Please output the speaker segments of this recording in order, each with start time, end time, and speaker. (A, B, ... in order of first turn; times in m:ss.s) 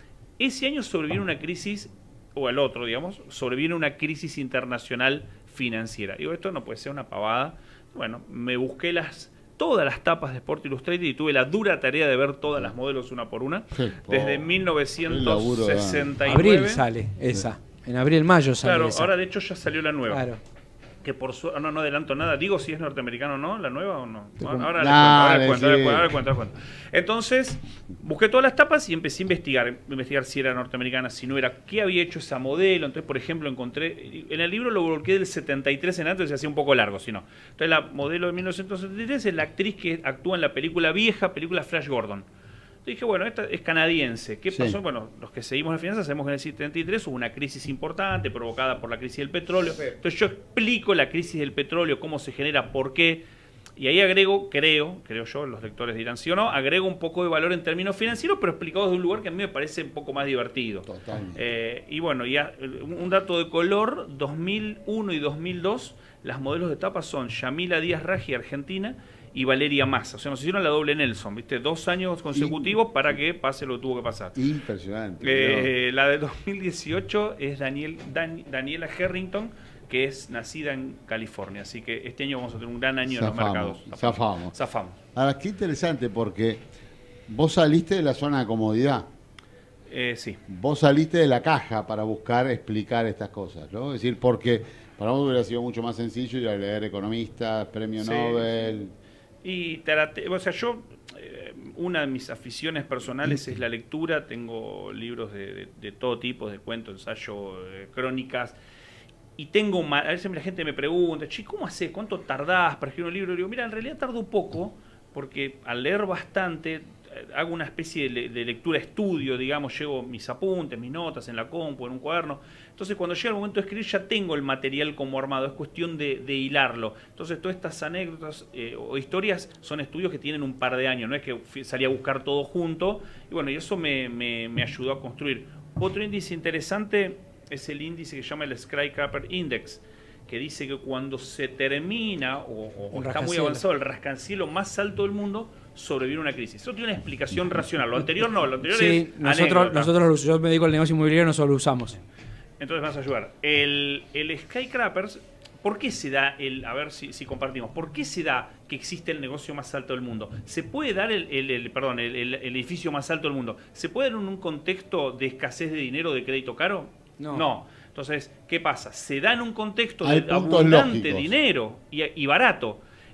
0:00.4-0:16.8 A
0:13.7-0:14.5 B
0:15.1-0:16.1 B
0:16.3-0:19.1 C
0:18.6-0:20.2 A
0:20.1-0:20.4 C
0:21.0-0:42.3 A
0:24.4-0:24.7 C
0:24.8-0:26.2 B
0:42.8-0:53.2 A
0:44.5-0:44.8 B
0:53.8-1:14.4 A
1:00.9-1:01.4 B
1:12.3-1:13.2 B
1:14.4-1:15.7 B
1:15.2-1:25.0 A
1:23.0-1:24.6 B
1:25.2-1:26.6 B
1:27.3-1:29.1 B
1:29.9-1:30.4 A
1:30.5-1:38.9 B
1:38.0-1:38.5 A
1:39.4-1:48.6 A
1:43.2-1:43.6 B
1:49.4-2:29.9 A
2:22.9-2:23.6 C
2:28.7-2:32.0 C
2:32.6-2:52.8 A
2:47.2-2:47.5 C
2:50.0-2:51.3 B